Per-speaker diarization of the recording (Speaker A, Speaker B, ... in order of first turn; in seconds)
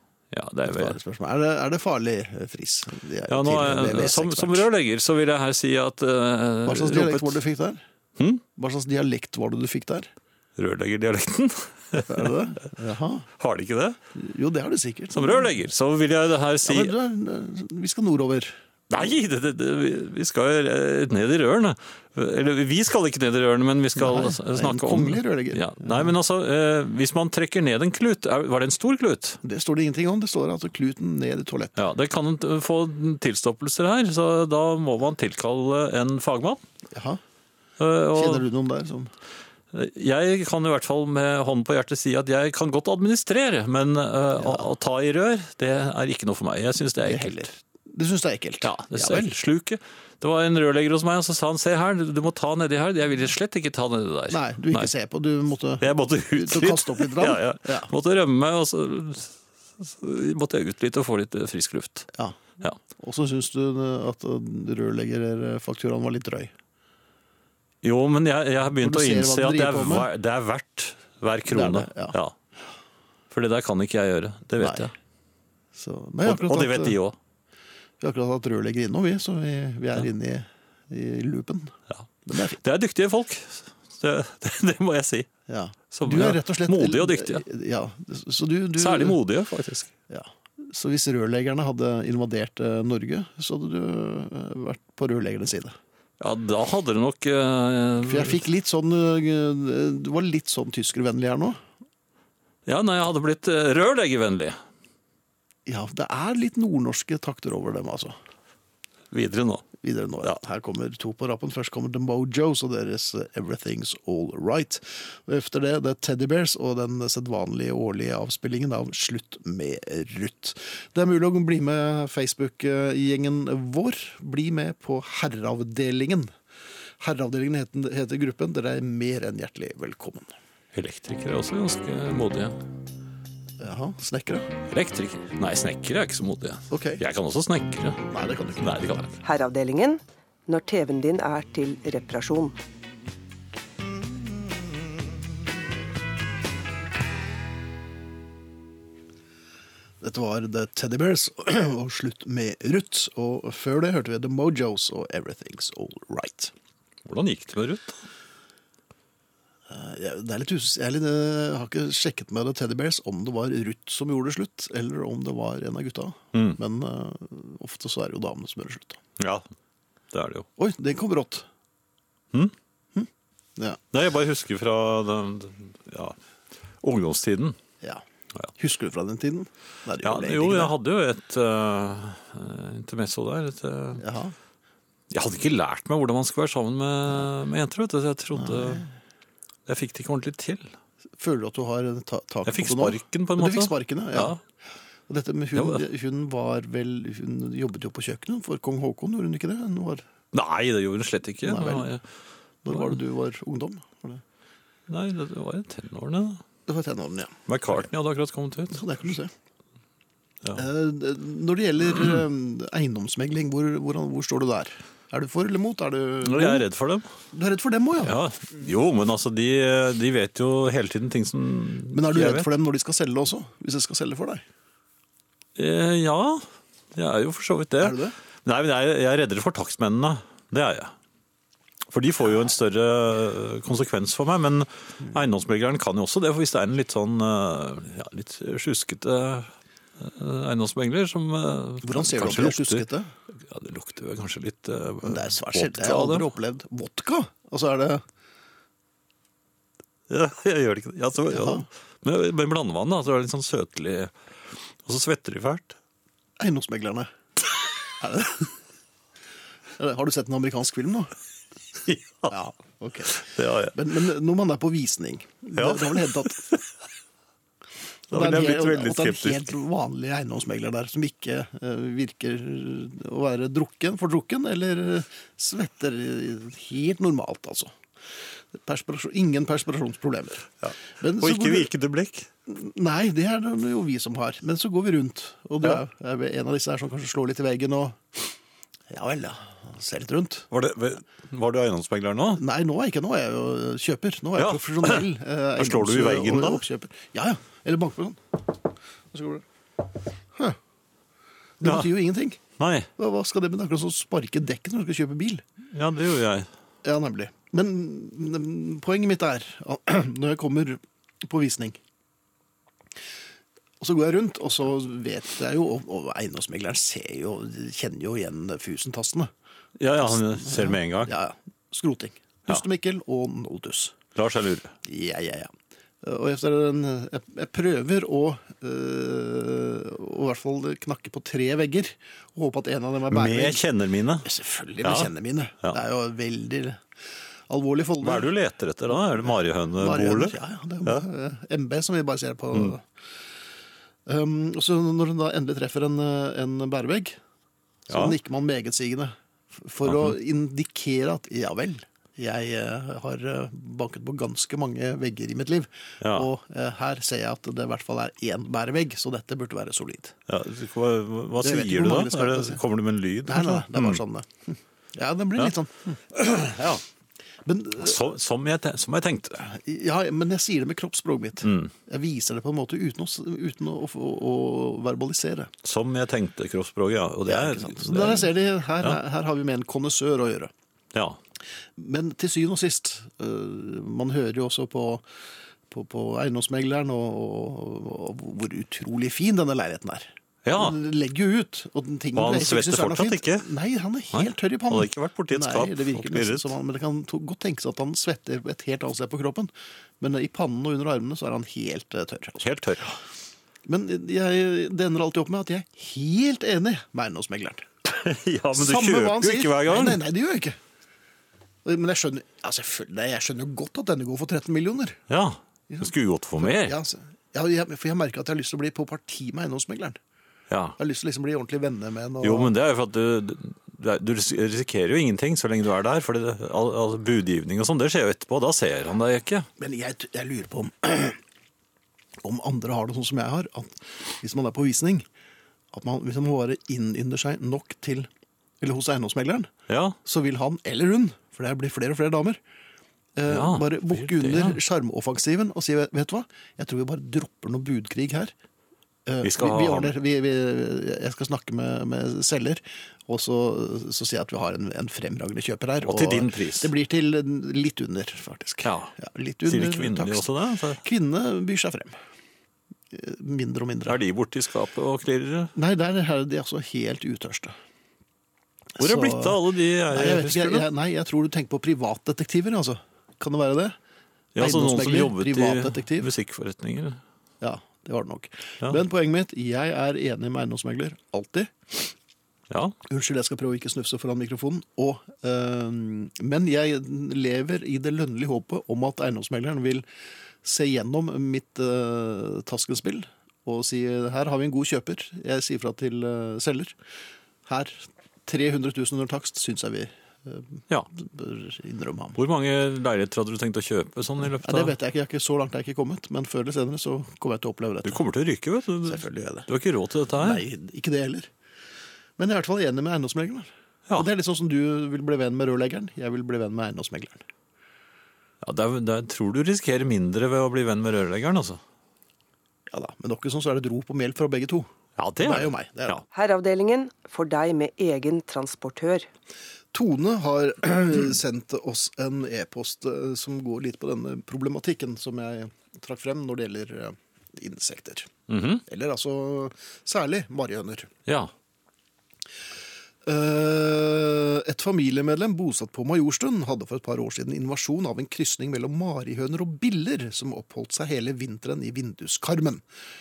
Speaker A: 0.3-1.0, 3.3-7.4, 10.6-12.3, 13.4-14.0, 15.1-16.9, 18.9-29.4, 31.8-36.6, 37.8-38.5, 39.7-47.5, 48.6-54.9, 55.8-62.1, 67.8-72.3, 73.3-74.9, 76.2-77.2, 82.6-85.3, 85.9-87.5, 88.8-89.9, 96.2-98.4, 102.7-104.6, 109.1-109.7, 130.7-132.6, 134.7-139.2, 157.1-158.0, 166.3-166.6, 169.2-169.5, 170.1-170.5, 173.9-176.2, 176.8-177.6, 180.0-184.0, 185.1-188.8, 189.7-190.7, 192.5-194.4, 195.5-195.8, 200.3-202.0, 202.7-203.0, 204.9-206.4, 207.5-208.8, 216.2-217.1, 218.0-222.5, 225.6-230.9, 231.9-242.9, 243.5-246.3, 250.1-254.1, 254.8-255.8, 261.9-262.3, 263.1-263.8, 265.6-266.3, 268.1-269.5, 280.6-282.3, 290.5-292.4, 294.4-295.1, 295.6-296.6, 301.6-301.9, 302.6-302.9, 305.7-306.5, 319.8-321.1, 324.2-324.7, 333.1-334.3, 334.8-335.1, 338.0-341.0, 347.9-348.2, 349.9-350.2, 356.0-356.3, 360.3-364.0, 366.5-366.8, 367.8-369.5, 371.4-371.7, 375.6-379.0, 390.4-390.8, 392.1-393.5, 394.1-396.5, 402.4-403.0, 407.9-410.0, 415.1-416.8, 420.5-420.8, 422.2-429.5, 439.7-440.0, 443.3-444.6, 449.2-449.9, 455.8-456.7, 458.6-458.9, 459.5-460.8, 463.9-465.5, 468.8-470.7, 474.4-477.0, 482.5-482.8, 502.2-504.8, 507.9-510.4, 518.4-521.6, 525.0-526.0, 538.3-538.6, 541.1-541.3
Speaker B: 0.7-4.7, 6.7-7.8, 8.6-10.1, 12.0-13.3, 14.1-15.5, 16.6-18.6, 24.0-26.1, 29.4-31.8, 36.9-37.2, 38.1-39.1, 44.4-44.6, 47.0-49.4, 54.3-57.9, 62.1-62.4, 63.0-66.5, 68.8-70.1, 71.5-72.2, 74.6-74.9, 75.7-77.0, 78.0-82.6, 85.5-89.2, 90.1-95.8, 98.0-101.6, 105.7-108.2, 109.8-126.3, 127.0-130.3, 133.6-134.5, 136.7-137.0, 138.1-139.2, 150.0-156.5, 159.7-169.0, 170.6-171.5, 172.9-173.8, 178.6-180.7, 184.0-184.3, 188.3-188.9, 191.2-194.4, 195.1-200.1, 201.4-201.9, 202.6-204.2, 206.7-207.9, 208.7-209.3, 210.6-216.7, 217.3-218.2, 221.9-224.4, 227.8-228.2, 241.8-243.1, 245.0-248.0, 251.3-251.7, 256.4-257.1, 258.0-258.5, 259.8-261.1, 262.3-266.5, 268.1-277.7, 278.5-281.7, 282.5-288.4, 288.9-290.5, 292.4-299.4, 301.6-302.4, 303.0-305.4, 306.8-311.8, 313.8-319.3, 320.0-324.0, 324.8-333.6, 334.2-336.8, 337.5-338.3, 338.9-342.9, 344.1-347.2, 347.9-360.2, 361.4-362.6, 363.2-366.6, 367.4-368.0, 369.4-375.5, 377.3-380.5, 381.8-385.1, 385.7-402.5, 403.6-407.7, 408.5-410.6, 411.6-415.0, 415.7-420.0, 420.8-422.5, 429.6-431.2, 432.2-435.1, 435.7-438.1, 438.6-439.5, 440.0-442.4, 443.1-448.3, 449.1-460.3, 460.8-462.0, 462.9-464.0, 465.6-467.6, 468.8-473.8, 474.4-476.1, 477.4-481.9, 482.9-489.9, 490.4-496.8, 497.5-502.2, 504.2-508.0, 508.8-509.5, 510.2-511.3, 512.2-517.2, 522.7-524.7, 525.2-526.0, 529.7-538.1, 538.7-540.9, 543.0-552.6
Speaker C: 139.2-142.6, 526.1-529.1